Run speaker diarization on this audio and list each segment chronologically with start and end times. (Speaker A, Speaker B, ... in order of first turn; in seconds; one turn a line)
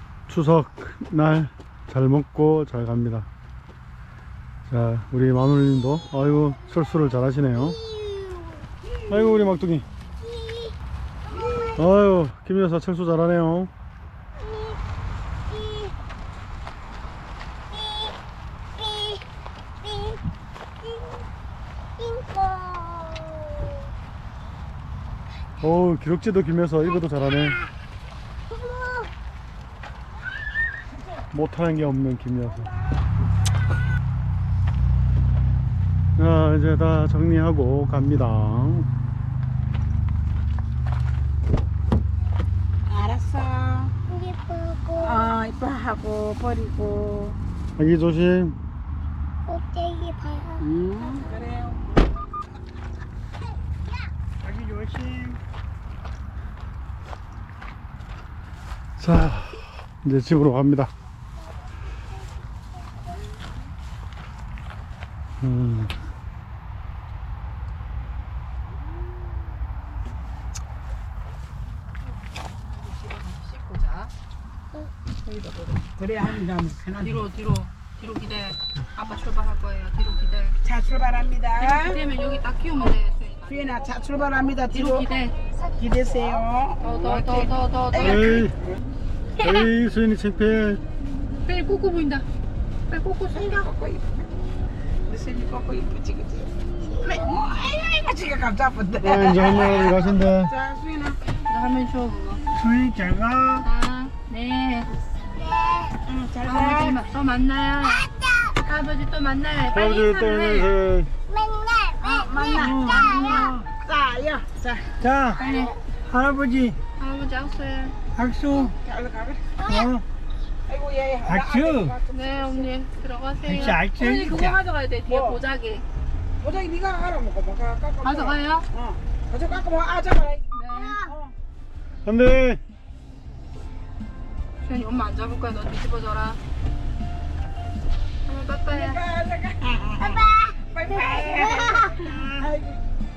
Speaker A: 0.3-3.3
Speaker A: 4.7-7.8
Speaker B: 7.7-8.7
Speaker A: 9.1-9.9
Speaker B: 10.2-11.9
Speaker A: 11.8-13.7
Speaker B: 14.4-14.8
Speaker B: 15.5-15.9
Speaker B: 17.7-18.2
Speaker B: 18.8-19.2
Speaker B: 19.8-20.2
Speaker B: 20.8-21.2
Speaker B: 22.0-23.8
Speaker A: 25.6-27.6
Speaker B: 28.5-29.1
Speaker A: 31.3-32.7
Speaker A: 36.2-38.9
Speaker C: 42.9-43.9
Speaker B: 44.1-45.3
Speaker C: 45.0-47.4
Speaker A: 47.8-48.6
Speaker B: 49.5-51.4
Speaker C: 50.6-51.9
Speaker D: 54.4-55.4
Speaker A: 59.0-60.9
Speaker A: 65.4-65.9
Speaker E: 72.0-74.1
Speaker E: 75.2-75.9
Speaker C: 76.0-77.3
Speaker E: 77.0-80.6
Speaker C: 80.6-82.0
Speaker E: 81.6-85.4
Speaker C: 83.5-85.1
Speaker C: 85.8-88.6
Speaker E: 86.8-88.4
Speaker A: 88.0-88.5
Speaker A: 89.4-90.8
Speaker E: 91.4-92.3
Speaker E: 92.9-93.7
Speaker C: 93.3-94.3
Speaker C: 95.1-96.5
Speaker B: 96.9-97.2
Speaker C: 97.0-101.2
Speaker A: 99.0-100.5
Speaker E: 101.5-102.4
Speaker D: 102.5-103.7
Speaker E: 103.6-104.9
Speaker B: 105.2-106.0
Speaker C: 106.1-107.0
Speaker E: 106.4-108.1
Speaker B: 107.8-108.6
Speaker E: 108.6-110.7
Speaker A: 109.7-111.1
Speaker B: 111.3-113.1
Speaker C: 112.0-114.9
Speaker E: 112.1-113.5
Speaker D: 112.5-113.7
Speaker D: 115.0-115.4
Speaker B: 115.4-115.8
Speaker E: 115.4-115.7
Speaker D: 116.1-116.8
Speaker E: 117.0-118.0
Speaker D: 118.1-118.8
Speaker C: 118.5-119.6
Speaker B: 119.6-119.9
Speaker D: 119.6-120.0
Speaker C: 120.7-122.7
Speaker D: 121.3-121.9
Speaker E: 122.1-125.8
Speaker D: 123.4-124.6
Speaker C: 125.1-125.4
Speaker C: 126.4-130.5
Speaker E: 128.0-128.7
Speaker E: 130.5-131.1
Speaker C: 131.0-131.3
Speaker A: 132.1-132.6
Speaker E: 134.6-136.4
Speaker E: 138.3-139.0
Speaker C: 138.7-142.8
Speaker B: 140.0-142.1
Speaker D: 142.1-142.4